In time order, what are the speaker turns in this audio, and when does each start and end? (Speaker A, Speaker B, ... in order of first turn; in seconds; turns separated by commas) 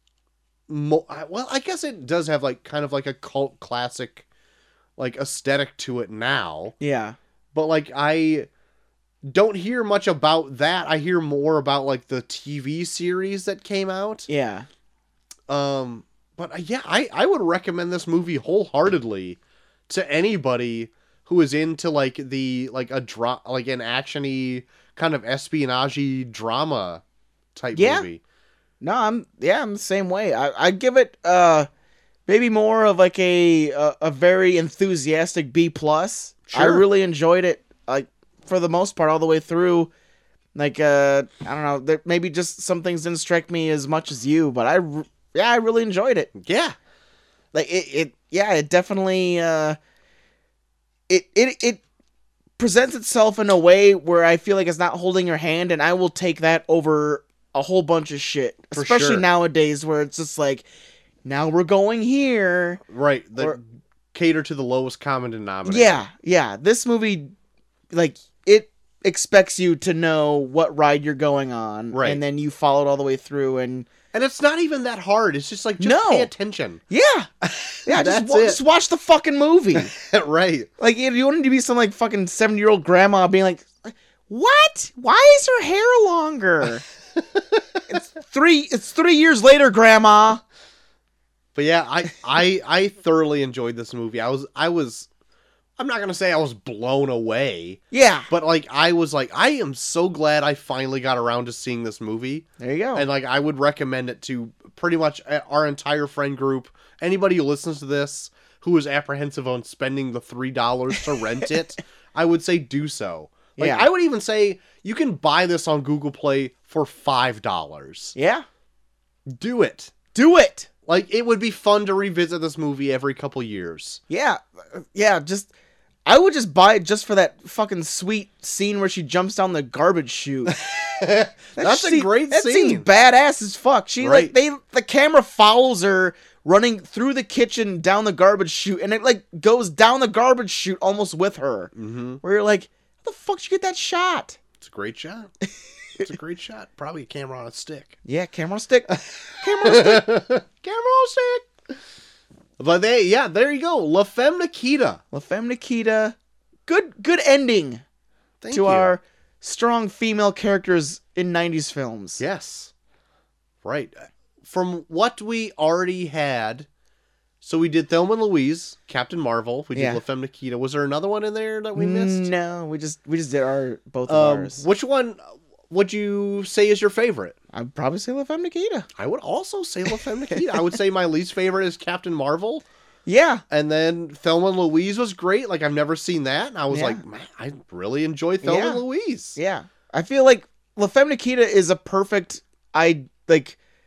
Speaker A: 0.7-4.2, Speaker A: 5.0-6.8, Speaker B: 6.8-7.2, Speaker A: 7.5-8.5, Speaker A: 9.2-14.3, Speaker B: 14.3-14.7, Speaker A: 15.5-27.0, Speaker A: 27.5-28.2, Speaker B: 27.7-28.1, Speaker B: 28.8-31.7, Speaker B: 32.3-39.9, Speaker A: 36.5-36.8, Speaker B: 40.5-46.3, Speaker A: 46.3-46.8, Speaker B: 47.5-49.8, Speaker B: 51.1-51.8, Speaker B: 52.6-60.6, Speaker A: 58.7-59.2, Speaker B: 61.2-62.8, Speaker A: 62.9-63.6, Speaker A: 64.1-66.0, Speaker B: 65.7-67.3, Speaker B: 67.9-73.9, Speaker A: 71.9-72.2, Speaker A: 74.1-76.8, Speaker B: 75.8-76.3, Speaker B: 76.9-77.3, Speaker A: 77.4-78.6, Speaker B: 77.8-79.9, Speaker A: 79.7-80.7, Speaker B: 80.8-86.8, Speaker A: 87.2-87.6, Speaker B: 87.9-90.4, Speaker A: 91.5-95.1, Speaker A: 95.8-118.1, Speaker B: 97.9-98.3, Speaker B: 102.6-103.0, Speaker B: 113.6-113.9, Speaker B: 118.1-118.4, Speaker A: 119.3-119.9, Speaker B: 120.1-120.7, Speaker A: 120.8-124.0, Speaker B: 124.1-125.5, Speaker B: 126.0-130.6, Speaker A: 130.5-132.9, Speaker B: 131.6-144.4, Speaker A: 134.0-134.3, Speaker A: 141.7-142.2, Speaker A: 144.6-145.3, Speaker A: 146.0-147.9, Speaker B: 148.0-150.1, Speaker A: 149.6-151.5, Speaker A: 152.6-155.0, Speaker B: 155.1-156.1, Speaker B: 156.7-157.8, Speaker A: 158.4-159.0, Speaker B: 158.5-162.2, Speaker A: 162.2-162.7, Speaker A: 163.6-166.7, Speaker A: 167.4-172.3, Speaker B: 169.7-170.0, Speaker B: 171.8-174.6, Speaker A: 174.1-177.3, Speaker B: 177.5-178.9, Speaker A: 178.9-182.6, Speaker B: 180.3-180.6, Speaker B: 183.1-183.4, Speaker A: 183.5-189.3, Speaker B: 186.7-187.0, Speaker B: 188.4-188.8, Speaker B: 189.3-193.6